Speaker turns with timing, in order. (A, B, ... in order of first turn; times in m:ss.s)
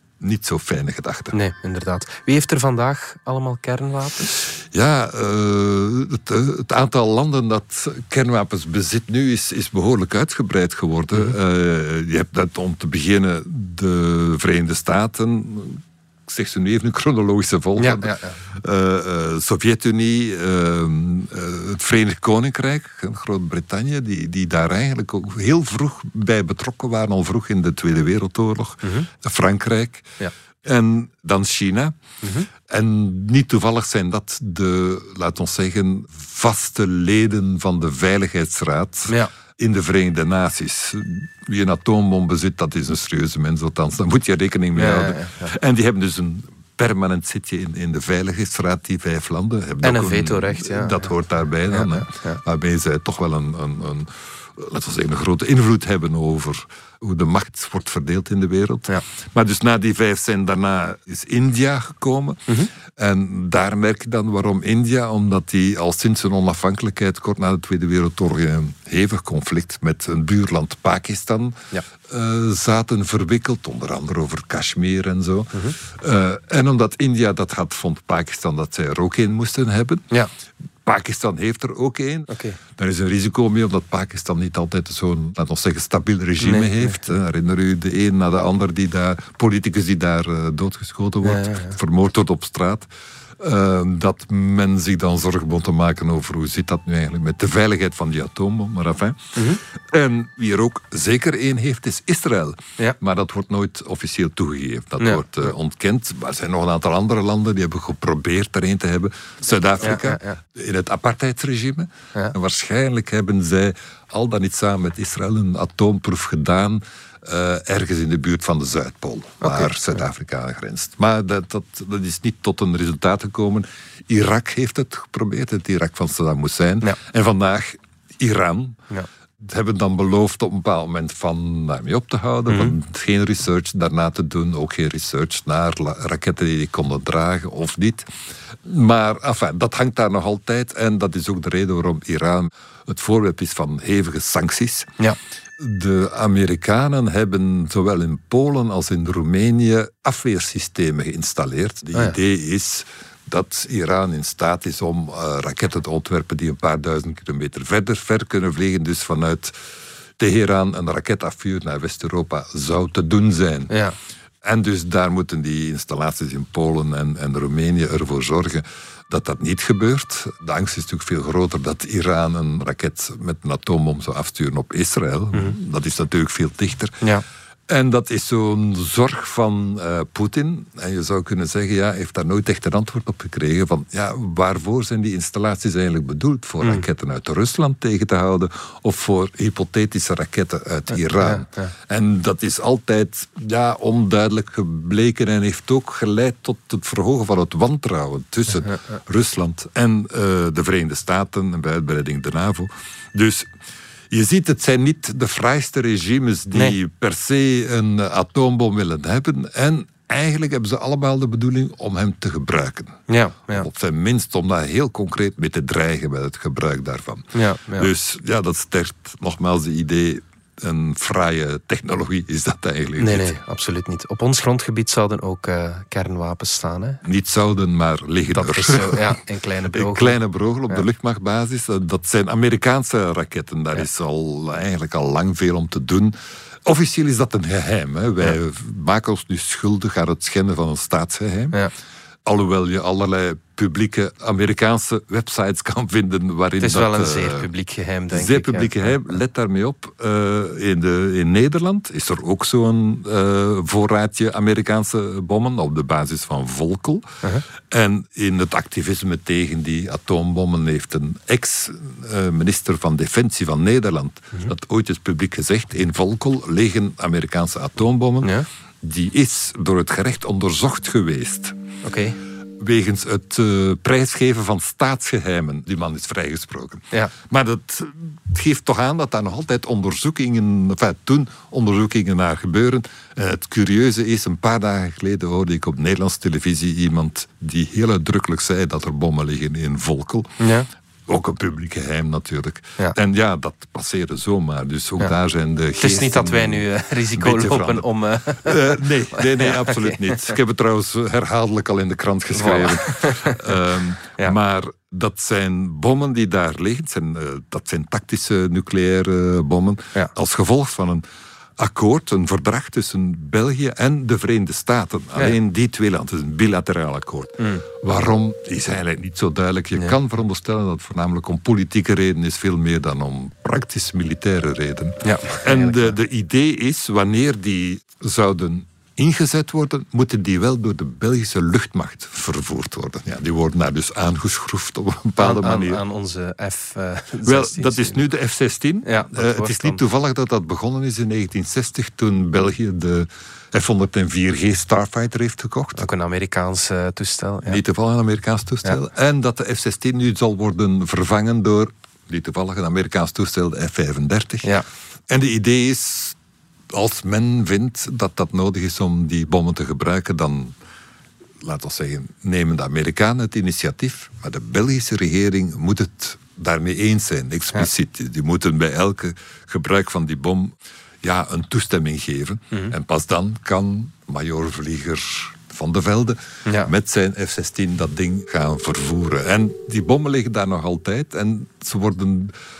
0:00.2-0:01.4 A
0:01.3-0:04.4 B
0:04.7-0:32.0 A
0:17.8-0:18.4 B
0:28.8-0:29.1 B
0:32.2-0:32.5 B
0:32.6-1:20.1 A
0:44.8-0:45.5 B
0:49.8-0:51.1 B
0:51.7-0:52.4 B
1:20.8-1:32.9 A
1:22.3-1:22.6 B
1:26.4-1:27.0 B
1:31.2-1:31.8 B
1:33.4-2:08.8 A
1:49.8-1:50.4 B
1:59.4-1:59.7 B
2:09.4-2:18.1 A
2:12.5-2:12.7 B
2:18.6-2:24.9 A
2:25.6-2:39.5 A
2:40.2-2:43.8 A
2:43.7-2:44.0 B
2:44.4-2:57.0 A
2:57.7-3:23.5 A
3:11.2-3:11.7 B
3:24.1-3:43.3 A
3:33.1-3:33.6 B
3:37.3-3:37.9 B
3:43.0-3:47.0 B
3:47.0-3:49.2 A
3:48.3-3:50.1 B
3:49.7-3:56.1 A
3:56.6-4:01.6 A
4:02.2-4:07.5 A
4:06.6-4:09.0 B
4:08.1-4:17.1 A
4:17.6-4:31.6 A
4:31.8-4:32.2 B
4:32.6-4:50.4 A
4:50.4-4:50.7 B
4:51.1-4:57.9 A
4:55.8-5:00.4 B
4:58.4-5:11.0 A
5:02.4-5:03.6 B
5:11.6-5:35.8 A
5:25.0-5:25.9 B
5:35.2-5:38.0 B
5:37.2-5:45.9 A
5:38.8-5:39.8 B
5:45.8-5:47.6 B
5:47.4-5:54.5 A
5:55.1-5:56.2 A
5:56.7-6:00.5 A
6:01.4-6:22.3 A
6:16.4-6:16.7 B